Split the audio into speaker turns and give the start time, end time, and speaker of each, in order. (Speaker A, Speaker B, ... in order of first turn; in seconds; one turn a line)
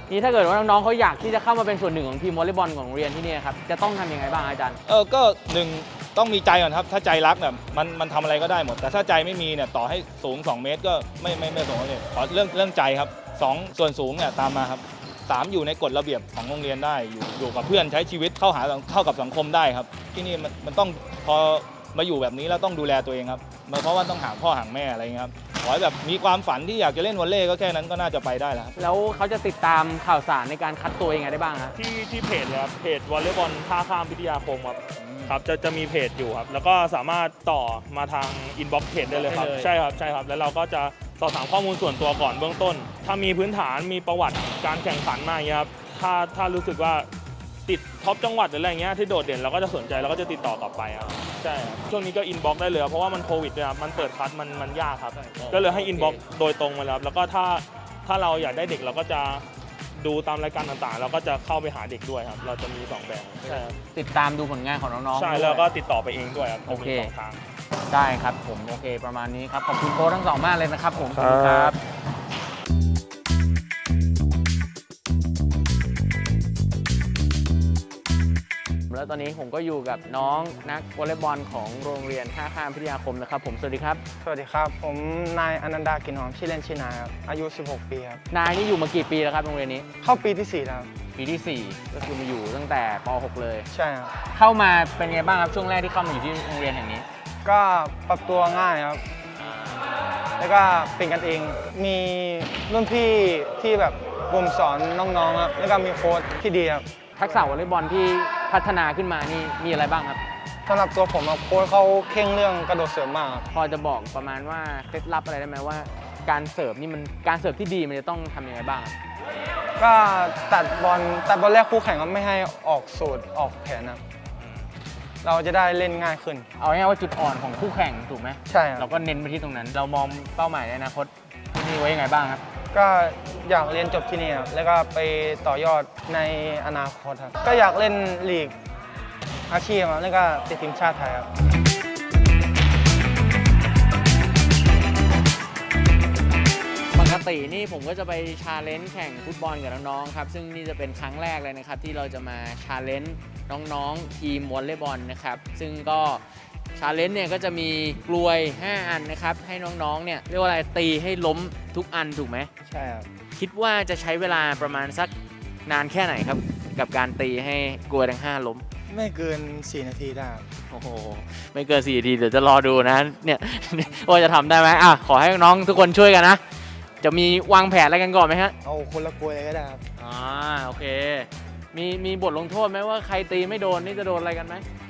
Speaker A: 0.1-4.8
Speaker B: 4.9-28.7
Speaker A: 28.8-31.8
Speaker C: 31.8-47.1
Speaker A: 35.0-35.3
Speaker A: 39.0-39.7
Speaker C: 47.6-63.7
Speaker A: 55.4-56.1
Speaker A: 63.8-65.7
Speaker C: 65.1-67.4
Speaker A: 66.7-67.1
Speaker A: 67.9-71.8
Speaker C: 71.2-71.7
Speaker A: 78.9-84.0
Speaker D: 84.2-88.2
Speaker A: 88.3-89.8
Speaker D: 90.0-90.9
Speaker A: 91.1-93.7
Speaker D: 93.7-94.2
Speaker A: 94.3-97.0
Speaker D: 97.4-99.0
Speaker D: 100.4-107.0
Speaker A: 107.2-110.2
Speaker D: 110.7-113.5
Speaker A: 113.5-118.9
Speaker D: 119.8-124.0
Speaker D: 125.2-126.5
Speaker A: 126.6-132.4
Speaker D: 128.5-128.9
Speaker D: 132.7-138.6
Speaker D: 139.5-141.3
Speaker A: 146.9-156.2
Speaker A: 156.7-162.5
Speaker D: 162.7-163.1
Speaker A: 163.3-165.1
Speaker A: 165.7-168.6
Speaker D: 168.9-170.5
Speaker A: 170.7-176.4
Speaker A: 177.0-178.6
Speaker D: 178.6-179.8
Speaker A: 180.0-184.6